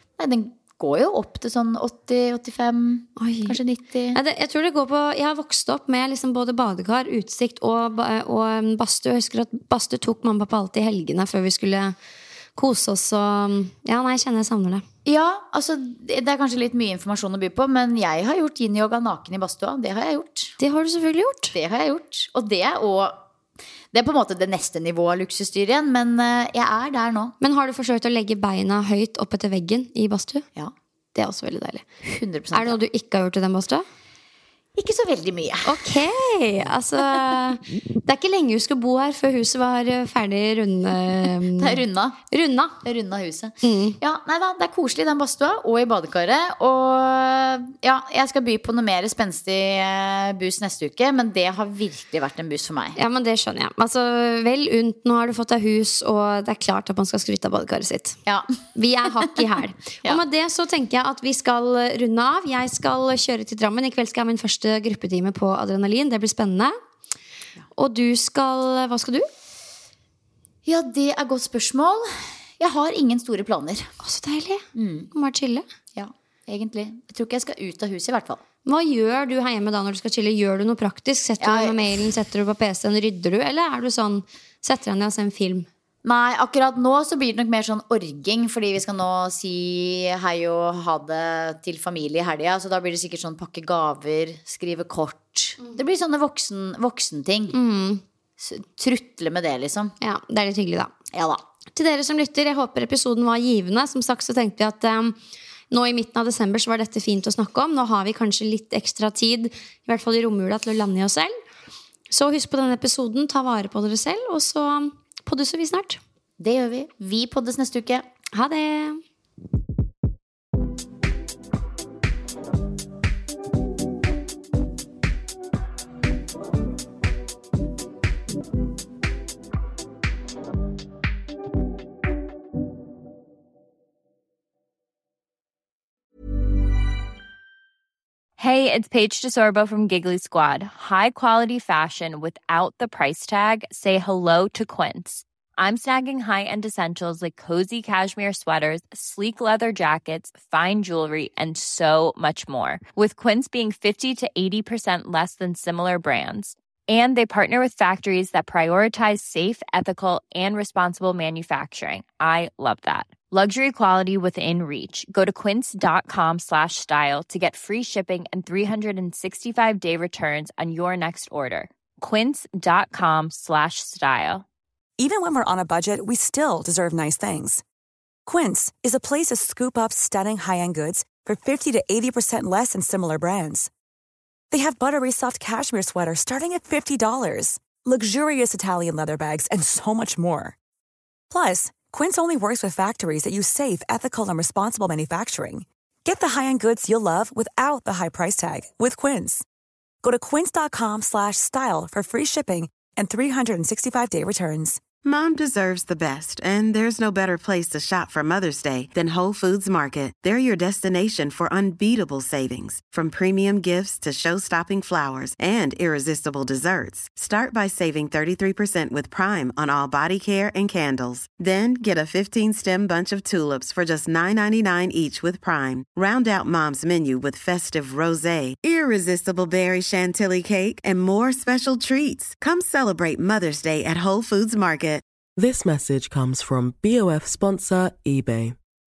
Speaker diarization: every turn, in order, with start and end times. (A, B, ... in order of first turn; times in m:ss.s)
0:00.2-0:04.2 A
0:03.2-0:03.6 B
0:04.1-0:11.9 B
0:12.6-0:14.8 B
0:15.0-0:20.6 A
0:20.6-0:21.5 B
0:21.5-0:23.2 A
0:23.9-0:27.3 A
0:27.4-0:30.4 B
0:31.2-0:31.8 B
0:32.0-0:32.8 A
0:32.5-0:33.8 B
0:34.8-0:35.9 A
0:35.6-0:42.8 B
0:41.4-0:42.2 A
0:42.8-0:53.0 A
0:43.6-0:44.0 B
0:53.0-0:58.2 B
0:58.7-1:06.7 B
1:07.8-1:09.3 B
1:10.6-1:13.9 A
1:14.0-1:15.6 B
1:14.7-1:15.1 A
1:15.9-1:18.4 A
1:18.6-1:25.7 B
1:21.4-1:21.8 A
1:26.0-1:37.6 A
1:37.5-1:38.0 B
1:38.4-1:39.9 A
1:40.0-1:40.9 B
1:41.1-1:41.4 A
1:41.7-1:45.2 B
1:45.7-1:51.3 B
1:52.1-1:56.0 B
1:56.4-1:58.1 A
1:58.3-1:59.0 B
2:18.4-2:54.4 C
2:55.0-2:57.6 D
2:58.2-3:03.7 D
3:04.5-3:10.6 D
3:11.3-3:19.4 D
3:20.0-3:24.8 D
3:25.0-3:55.0 E
3:55.4-3:58.6 F